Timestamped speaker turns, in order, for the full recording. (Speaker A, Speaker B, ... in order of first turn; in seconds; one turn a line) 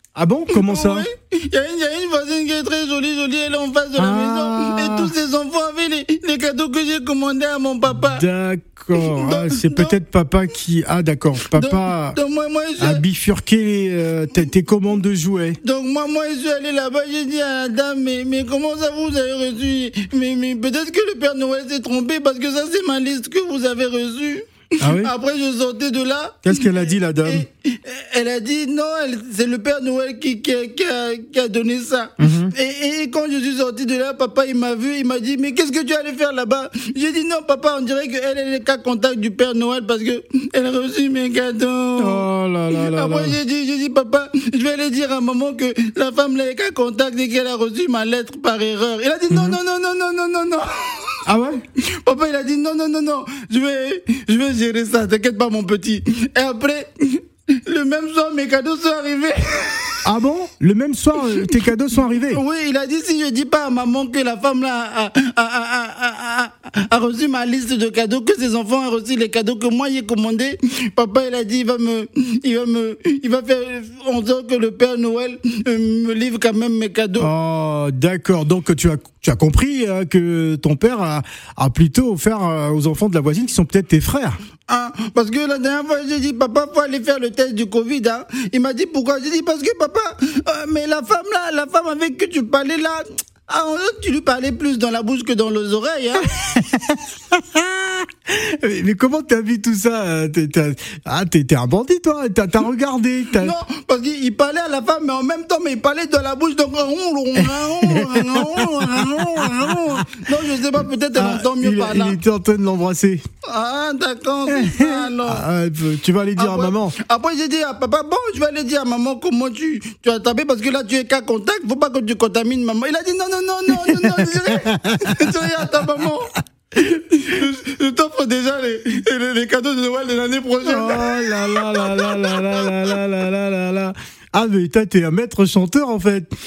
Speaker A: 0.1-1.1
Speaker B: 0.5-8.2
Speaker A: 4.0-5.1
Speaker A: 8.0-12.2
Speaker B: 8.9-10.0
Speaker B: 11.4-13.0
Speaker A: 12.8-15.6
Speaker B: 15.6-51.2
Speaker A: 24.8-25.1
Speaker A: 26.4-27.4
Speaker A: 32.2-32.5
Speaker A: 42.0-43.4
Speaker A: 49.3-49.6
Speaker A: 51.2-51.6
Speaker B: 51.8-60.0
Speaker A: 60.0-62.4
Speaker B: 62.2-77.3
Speaker A: 77.2-84.4
Speaker B: 84.7-96.3
Speaker A: 96.4-103.5
Speaker B: 103.3-112.2
Speaker A: 107.5-109.7
Speaker A: 111.1-113.2
Speaker B: 113.5-115.4
Speaker A: 114.5-116.9
Speaker B: 116.3-132.9
Speaker A: 123.7-125.5
Speaker A: 130.6-136.3